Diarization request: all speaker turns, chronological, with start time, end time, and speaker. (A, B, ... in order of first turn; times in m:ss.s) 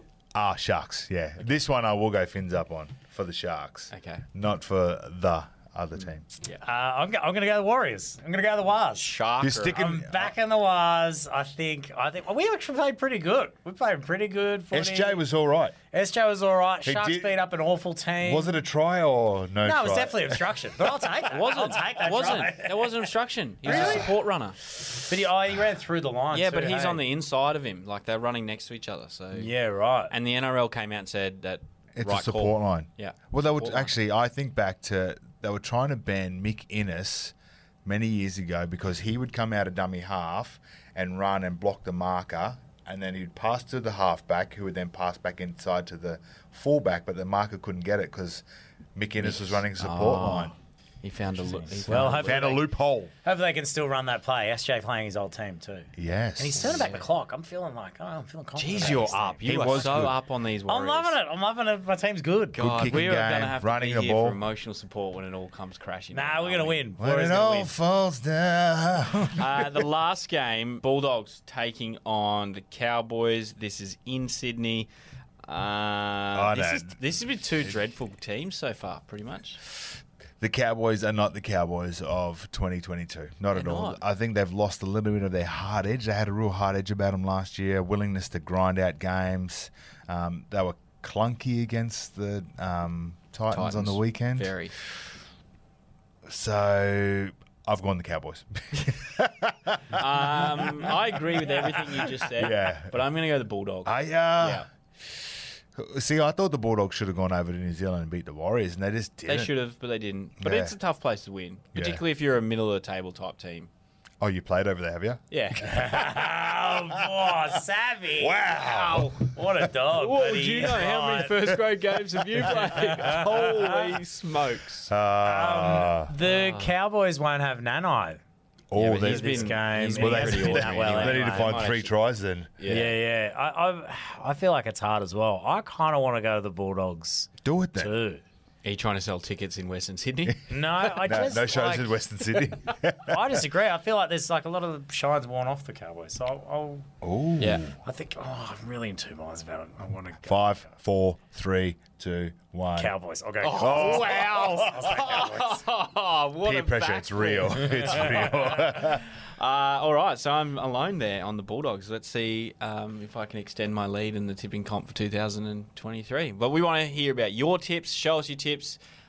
0:00.4-0:06.2 A
0:03.9-0:04.2 B
0:06.6-0:09.2 C
0:09.0-0:09.8 B
0:09.4-0:10.3 A
0:09.7-0:15.2 C
0:14.7-0:15.8 A
0:15.9-0:18.6 C
0:16.8-0:17.4 A
0:18.2-0:20.6 A
0:19.6-0:23.1 C
0:21.3-0:24.6 B
0:23.6-0:24.2 C
0:23.7-0:24.1 A
0:24.7-0:27.0 C
0:26.3-0:29.5 B
0:29.4-0:30.1 C
0:30.1-0:33.9 B
0:32.0-0:48.4 A
0:48.9-0:50.5 A
0:49.2-0:52.5 B
0:51.4-0:52.7 C
0:51.8-0:53.1 A
0:53.2-1:00.1 C
0:56.0-0:56.9 A
0:56.5-0:57.0 B
0:58.6-1:01.2 B
0:58.9-1:00.1 A
1:00.6-1:02.6 C
1:02.5-1:06.9 B
1:02.6-1:04.4 A
1:06.1-1:07.8 C
1:07.0-1:09.6 A
1:09.4-1:14.9 B
1:15.4-1:19.6 B
1:16.3-1:17.0 A
1:20.4-1:34.9 A
1:23.5-1:24.0 B
1:33.5-1:34.7 B
1:36.3-1:40.6 A
1:39.9-1:44.7 B
1:41.4-1:43.0 A
1:43.9-1:49.5 A
1:49.3-1:53.7 B
1:50.4-1:50.8 A
1:51.8-1:52.0 A
1:54.2-1:57.4 A
1:55.3-1:55.8 B
1:55.6-2:01.6 C
1:58.2-1:59.7 A
1:58.6-1:59.1 B
1:59.9-2:04.9 B
2:02.3-2:03.7 C
2:04.9-2:06.1 A
2:05.2-2:08.2 C
2:06.2-2:06.8 B
2:08.7-2:12.8 A
2:08.8-2:11.9 B
2:08.9-2:11.6 C
2:12.6-2:12.9 B
2:12.7-2:18.2 C
2:17.4-2:17.9 A
2:18.6-2:21.3 B
2:20.5-2:22.4 C
2:21.0-2:23.4 A
2:23.0-2:26.9 C
2:27.0-2:27.8 A
2:27.4-2:27.7 B
2:27.8-2:30.6 C
2:30.2-2:32.9 A
2:32.8-2:35.6 C
2:33.4-2:48.8 B
2:33.6-2:34.9 A
2:36.4-2:39.0 A